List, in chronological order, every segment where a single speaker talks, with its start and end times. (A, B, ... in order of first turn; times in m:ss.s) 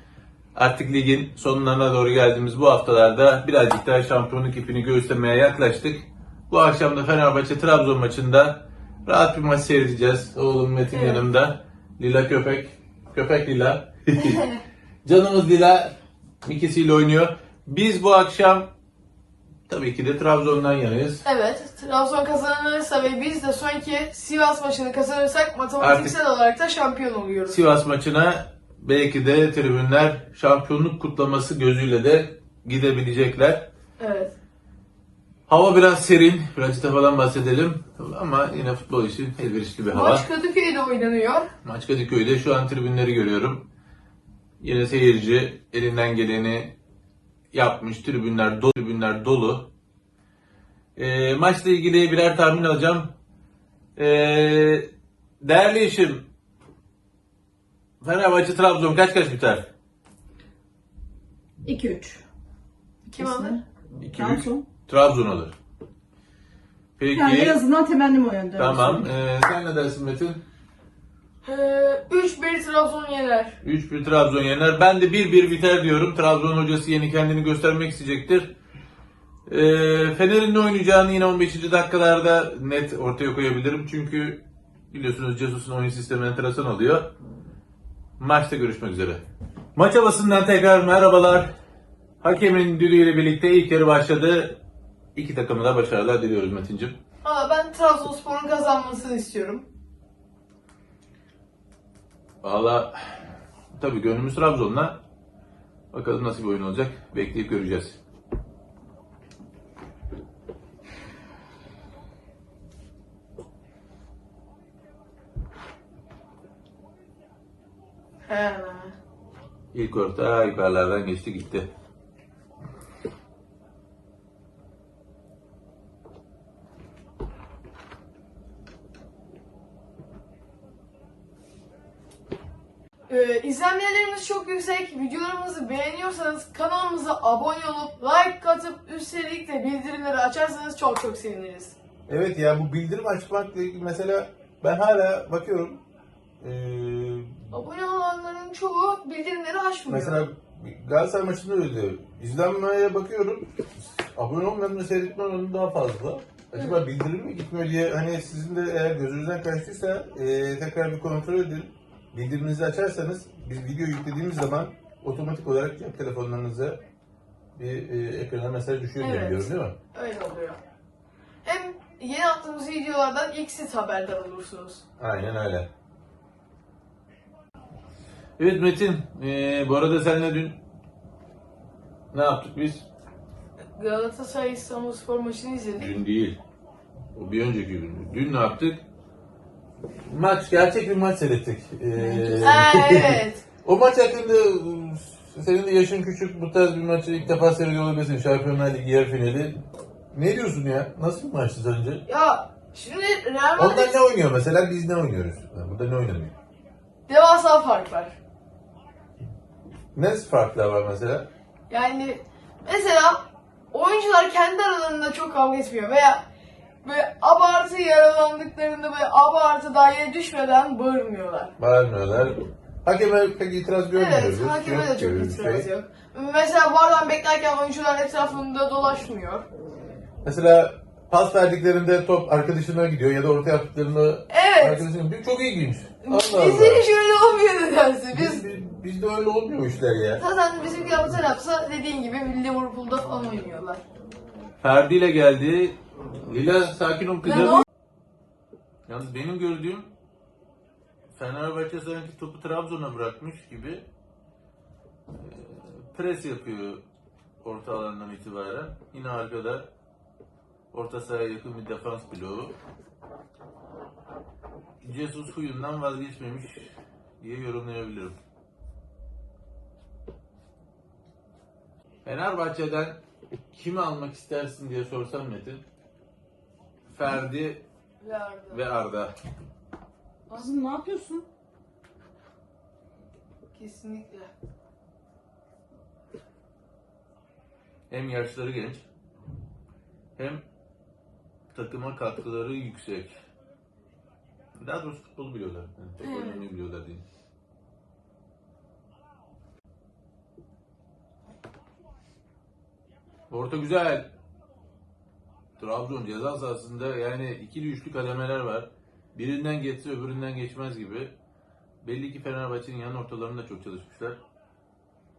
0:00.5-0:14.5 A
0:10.9-0:11.2 B
0:14.2-0:14.6 B
0:15.0-0:18.7 A
0:19.7-0:21.2 A
0:21.2-0:27.6 B
0:25.8-0:26.1 A
0:27.5-0:33.7 A
0:34.0-0:34.3 B
0:35.5-0:40.2 A
0:39.9-0:41.5 B
0:41.6-0:43.7 A
0:44.6-0:46.7 A
0:47.5-0:49.7 A
0:51.0-0:53.1 A
0:54.0-0:54.9 A
0:55.4-0:56.2 A
0:58.0-0:59.7 A
1:01.6-1:02.2 C
1:03.0-1:03.6 B
1:03.2-1:04.6 C
1:04.0-1:05.5 A
1:07.0-1:07.6 A
1:07.1-1:09.1 C
1:08.6-1:10.4 A
1:11.4-1:13.6 B
1:13.6-1:18.5 A
1:19.5-1:27.1 A
1:28.2-1:29.2 A
1:29.8-1:31.5 A
1:32.2-1:34.6 A
1:35.1-1:37.0 A
1:37.2-1:39.7 B
1:42.4-1:45.0 A
1:45.9-1:48.0 A
1:58.2-1:59.0 B
1:59.7-2:01.7 A
2:13.1-2:21.8 B
2:22.1-2:25.8 A
2:26.4-2:27.5 A
2:27.5-2:30.2 B
2:29.9-2:46.8 A
2:47.6-2:49.7 A
2:49.0-2:50.6 B
2:51.4-2:54.8 B
2:55.0-2:55.7 A
2:58.4-3:00.6 A
3:02.1-3:02.9 A
3:03.7-3:05.9 B
3:05.8-3:06.4 A
3:07.1-3:08.8 A
3:10.0-3:19.6 A
3:12.2-3:13.4 B
3:20.1-3:22.0 A
3:22.0-3:24.0 B
3:23.6-3:26.3 A
3:27.1-3:28.2 B
3:29.9-3:31.3 A
3:31.7-3:36.2 B
3:36.8-3:41.5 B
3:41.6-3:45.7 A
3:43.9-3:49.4 B
3:50.2-3:56.8 A
3:54.3-3:54.8 B
3:56.0-3:58.4 B
3:58.1-4:00.2 A
4:00.2-4:03.8 B
4:04.6-4:07.6 A
4:07.3-4:07.6 B
4:08.9-4:09.9 A
4:11.1-4:13.8 A
4:15.1-4:16.8 A
4:17.4-4:19.7 A
4:20.7-4:22.5 A
4:24.8-4:28.2 A
4:32.0-4:33.0 A
4:33.5-4:35.6 A
4:36.9-4:37.6 A
4:38.0-4:38.6 B
4:38.5-4:39.1 A
4:40.3-4:40.5 B
4:40.3-4:41.2 C
4:43.5-4:44.3 B
4:47.9-4:48.8 A
4:50.2-4:50.4 A
4:51.5-4:53.2 A
4:54.6-4:57.0 A
4:56.0-4:56.4 B
5:03.3-5:04.1 A
5:05.6-5:11.1 A
5:11.8-5:14.2 A